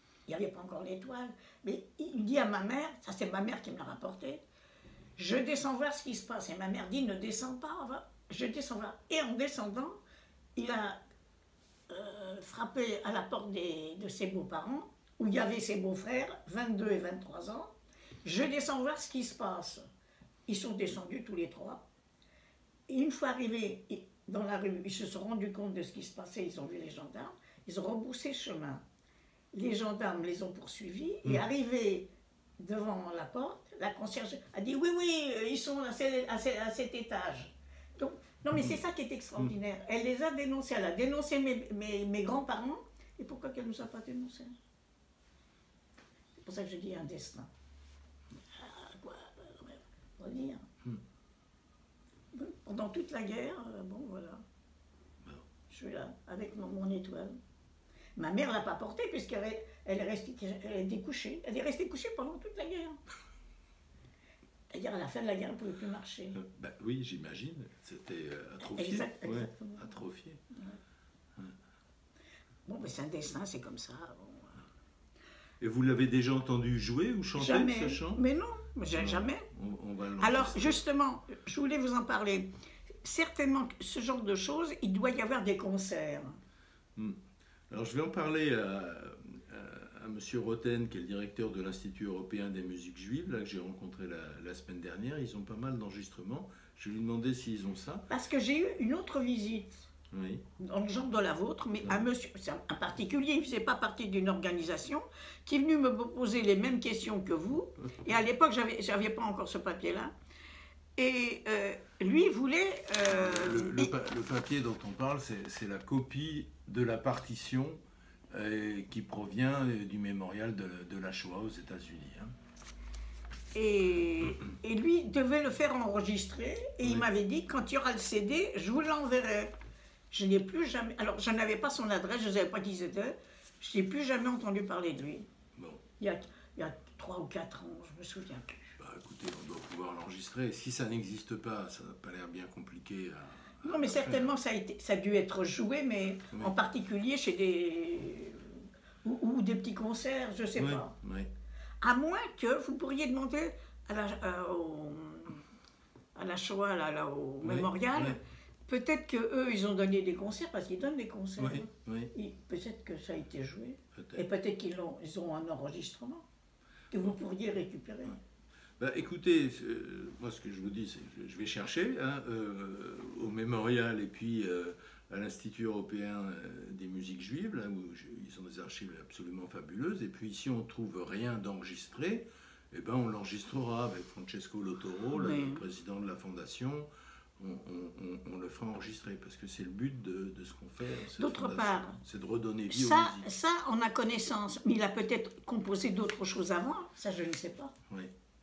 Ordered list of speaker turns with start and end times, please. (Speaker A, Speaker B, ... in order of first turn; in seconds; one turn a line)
Speaker A: 0.3-4.4
Speaker A: 5.2-10.0
Speaker A: 10.6-11.0
Speaker A: 11.9-17.7
Speaker A: 18.2-19.8
Speaker A: 20.5-21.8
Speaker A: 22.9-28.8
Speaker A: 29.5-44.5
Speaker A: 46.4-47.5
Speaker A: 48.5-50.6
Speaker A: 52.3-54.4
Speaker A: 55.7-57.4
Speaker A: 58.2-63.0
Speaker A: 64.7-66.4
Speaker B: 66.3-70.4
Speaker A: 68.6-69.9
Speaker A: 72.7-74.6
Speaker B: 75.6-78.2
Speaker A: 77.3-79.5
Speaker B: 78.9-80.8
Speaker A: 80.2-82.5
Speaker A: 83.0-86.3
Speaker B: 87.7-98.1
Speaker A: 98.1-99.9
Speaker B: 100.1-100.4
Speaker A: 100.6-110.1
Speaker A: 111.0-113.9
Speaker B: 113.0-117.8
Speaker B: 118.3-122.3
Speaker A: 123.5-129.5
Speaker B: 126.8-127.1
Speaker A: 130.1-135.2
Speaker B: 135.6-135.8
Speaker A: 136.0-138.8
Speaker B: 138.8-144.3
Speaker A: 143.6-150.9
Speaker B: 150.6-151.3
Speaker A: 151.8-155.4
Speaker A: 156.1-166.2
Speaker B: 157.4-158.2
Speaker B: 161.4-162.1
Speaker B: 163.9-164.2
Speaker A: 166.9-168.2
Speaker B: 168.8-186.9
Speaker A: 185.1-185.6
Speaker B: 187.4-193.3
Speaker A: 191.2-192.0
Speaker A: 192.7-197.7